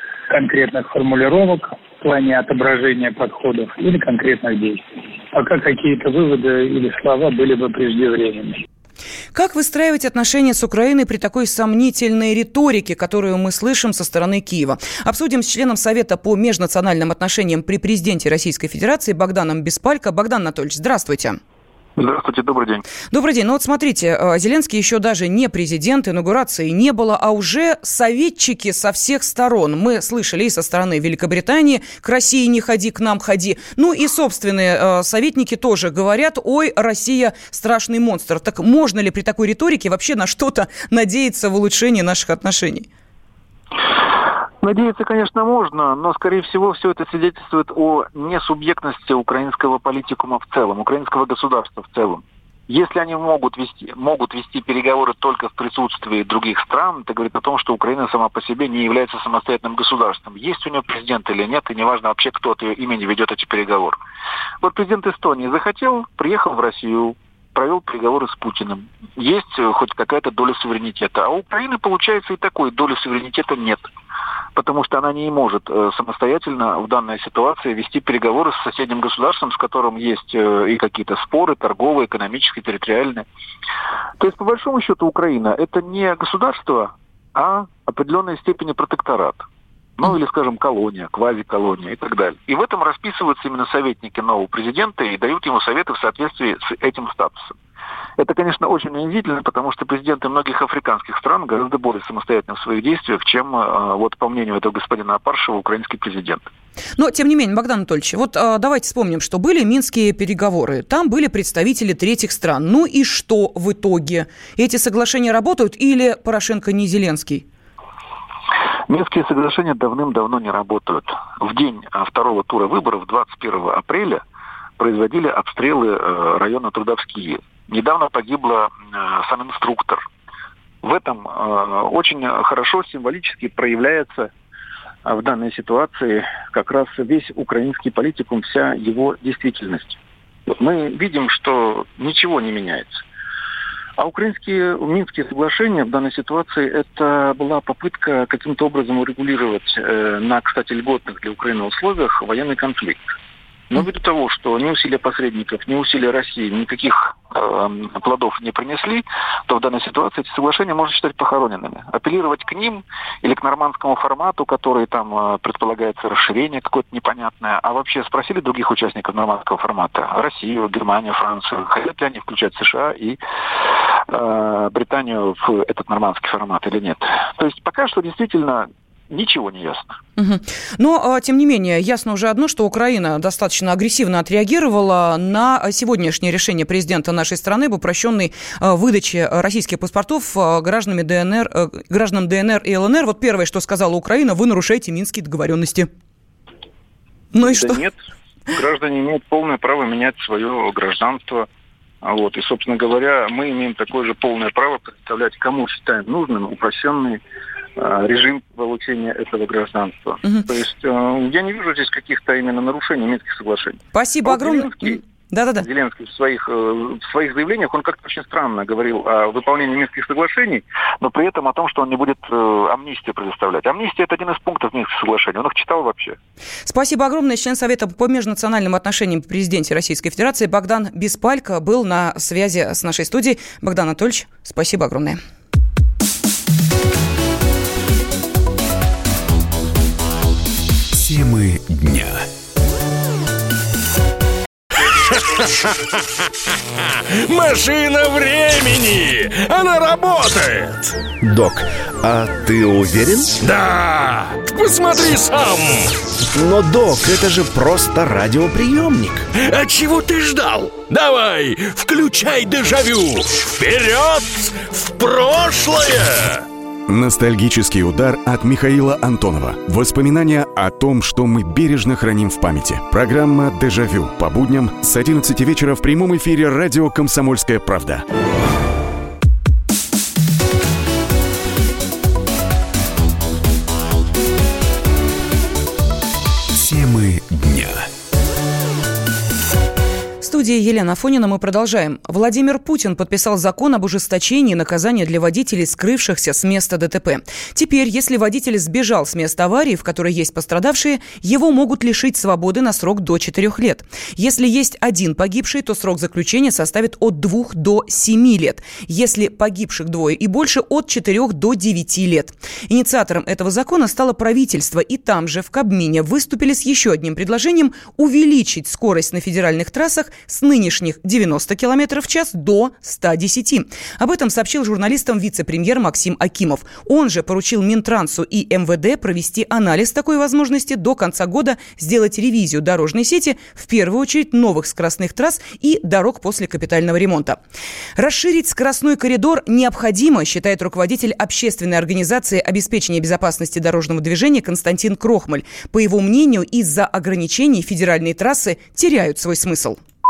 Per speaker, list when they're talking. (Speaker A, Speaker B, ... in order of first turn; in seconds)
Speaker A: 0.3-4.8, 5.3-8.6
Speaker B: 9.3-21.4, 23.1-42.9, 107.0-117.4, 180.2-195.9, 197.3-197.8, 213.9-215.6, 226.7-235.2, 290.2-337.4, 338.0-349.8
Speaker C: 22.0-22.8, 44.6-64.0, 64.6-73.9, 74.5-83.2, 84.2-89.4, 90.0-97.5, 98.2-106.5, 118.9-124.2, 124.8-130.0, 130.8-134.3, 135.0-140.0, 140.5-143.0, 144.0-153.1, 153.7-173.2, 174.1-179.9, 197.4-197.9, 198.5-201.4, 202.0-207.2, 207.8-215.0, 215.6-226.2
Speaker D: 247.1-250.9, 253.4-255.9, 259.3-266.4
Speaker E: 266.9-278.0